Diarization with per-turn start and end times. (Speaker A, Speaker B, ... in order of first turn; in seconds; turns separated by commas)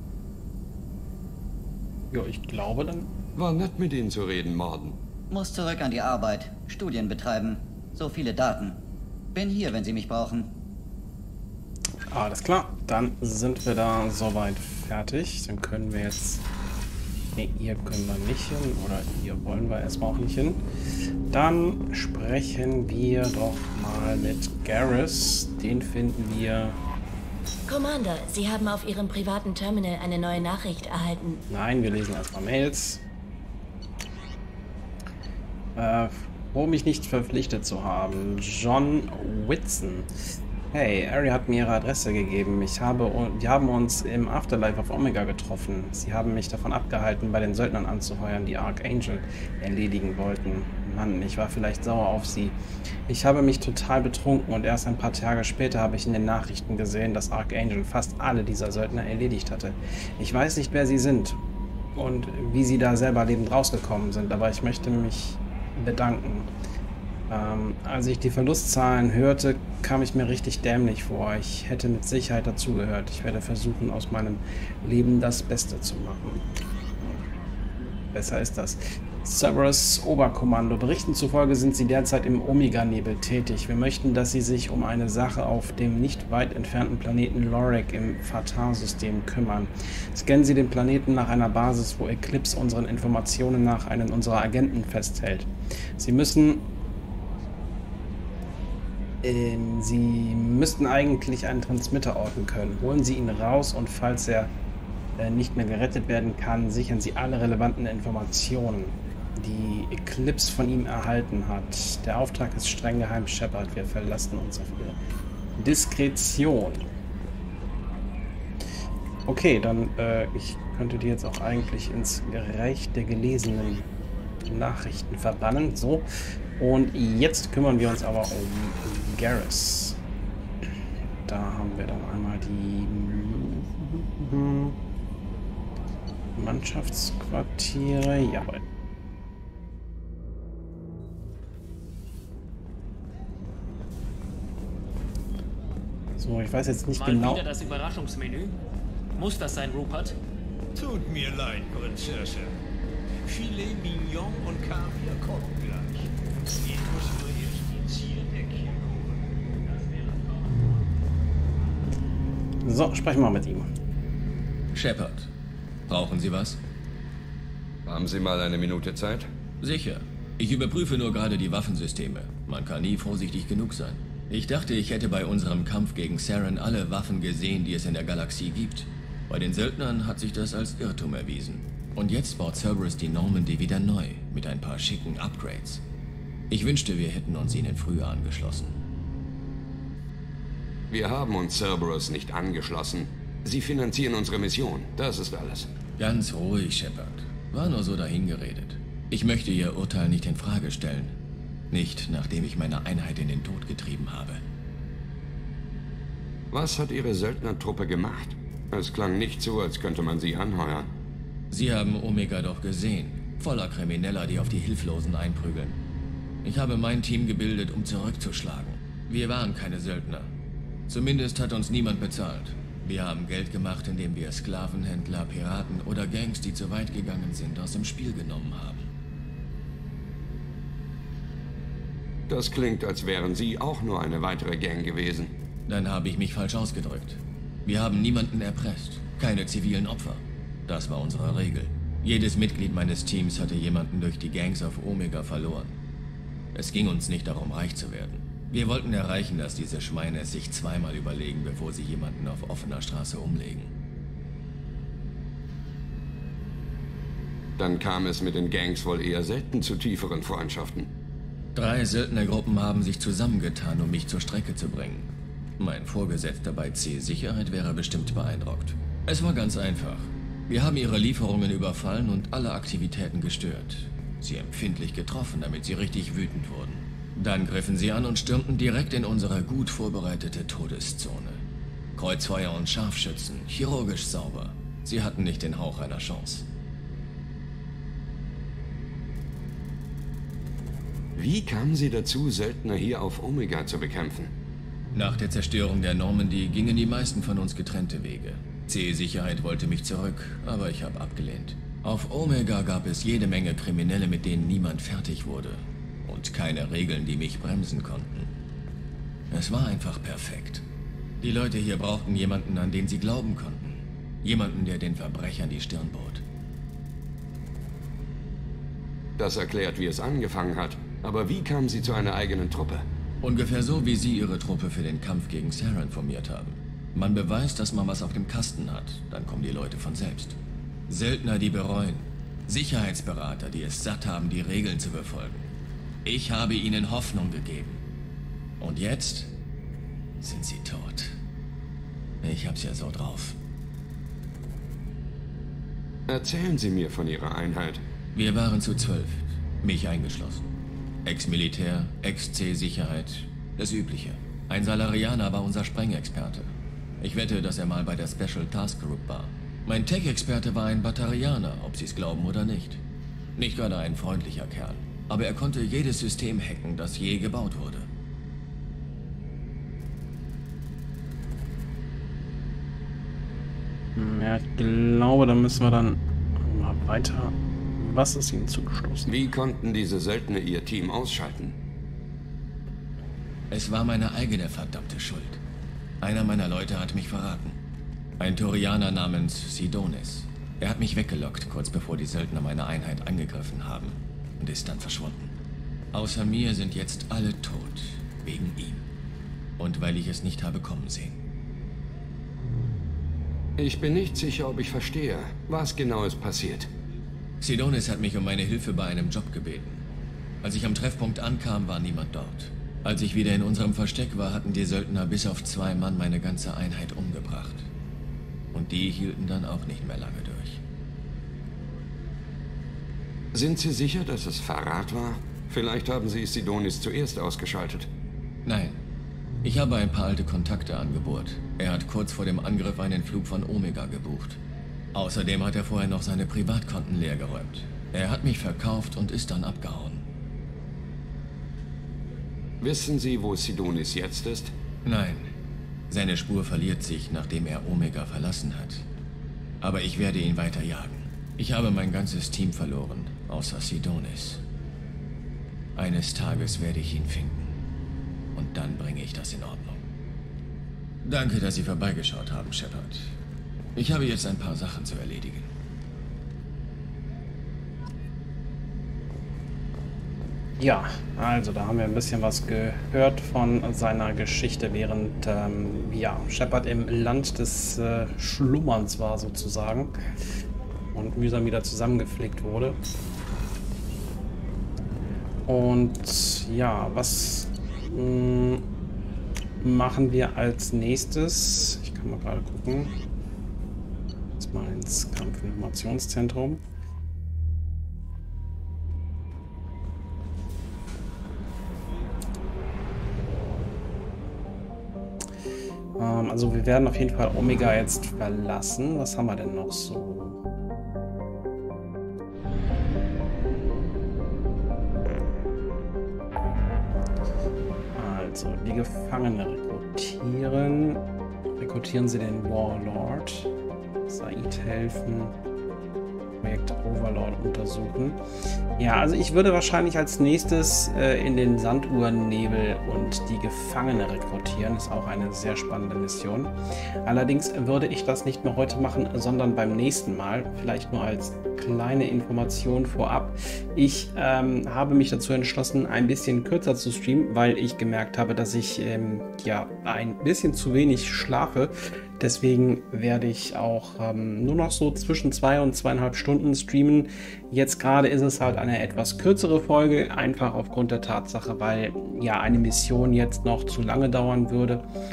Speaker A: 2.1-3.1, Speaker B: 3.4-5.0, Speaker C: 5.3-8.8, Speaker C: 9.3-10.5, Speaker A: 12.1-16.4, Speaker A: 17.4-20.6, Speaker A: 21.3-26.8, Speaker D: 27.7-31.4, Speaker A: 31.5-33.0, Speaker A: 35.8-40.1, Speaker A: 40.7-52.6, Speaker A: 53.1-61.4, Speaker A: 62.0-66.5, Speaker A: 67.3-76.5, Speaker A: 78.1-96.6, Speaker A: 99.2-104.5, Speaker A: 105.2-115.0, Speaker A: 115.6-116.8, Speaker A: 119.3-123.9, Speaker A: 124.5-126.1, Speaker A: 126.6-130.0, Speaker A: 131.3-134.8, Speaker A: 136.4-138.6, Speaker A: 146.2-147.4, Speaker E: 146.9-148.6, Speaker E: 149.2-150.2, Speaker F: 150.8-152.4, Speaker F: 153.3-155.9, Speaker F: 156.6-158.7, Speaker A: 162.6-163.7, Speaker G: 164.7-165.3, Speaker G: 165.9-166.6, Speaker B: 167.9-169.3, Speaker G: 169.6-185.8, Speaker G: 186.5-188.8, Speaker B: 190.9-195.7, Speaker G: 196.0-201.1, Speaker G: 201.7-204.4, Speaker B: 206.5-210.9, Speaker G: 211.5-215.8, Speaker G: 216.4-220.3, Speaker G: 220.9-228.8, Speaker B: 232.3-235.3, Speaker G: 235.7-245.8, Speaker G: 246.6-253.7, Speaker B: 257.6-260.9, Speaker G: 261.6-265.1, Speaker G: 265.6-281.4, Speaker G: 282.0-286.4, Speaker B: 291.2-294.3, Speaker G: 294.9-308.3, Speaker G: 309.3-310.6, Speaker G: 311.2-316.2, Speaker B: 319.2-322.9, Speaker G: 323.2-330.4, Speaker G: 330.9-335.5, Speaker G: 336.1-337.8, Speaker G: 338.6-339.3, Speaker G: 340.2-341.1, Speaker G: 342.2-343.4, Speaker B: 346.1-347.8, Speaker G: 348.1-350.4, Speaker G: 351.1-362.8, Speaker G: 363.4-367.9, Speaker A: 374.0-379.1, Speaker B: 379.1-381.6, Speaker G: 383.5-385.4, Speaker G: 386.0-387.6, Speaker G: 388.2-395.3, Speaker G: 395.9-398.8, Speaker G: 399.6-401.2, Speaker B: 403.6-406.7, Speaker G: 407.4-409.8, Speaker G: 410.4-417.7, Speaker G: 418.5-420.6, Speaker B: 423.3-427.9, Speaker G: 428.5-428.8, Speaker G: 429.4-434.4, Speaker G: 434.9-440.0, Speaker B: 442.6-444.5, Speaker G: 444.9-445.3, Speaker G: 445.9-448.9, Speaker G: 449.6-454.4, Speaker G: 455.8-457.5, Speaker G: 458.4-459.8, Speaker G: 461.0-463.1, Speaker G: 463.8-465.5, Speaker A: 470.6-480.0, Speaker A: 480.9-482.8, Speaker A: 485.5-488.6, Speaker A: 489.6-492.9, Speaker A: 494.4-496.6, Speaker A: 506.0-510.4, Speaker A: 518.0-521.0, Speaker A: 521.6-523.5, Speaker A: 524.1-525.3, Speaker A: 526.4-528.2, Speaker A: 528.8-536.5, Speaker A: 537.0-564.8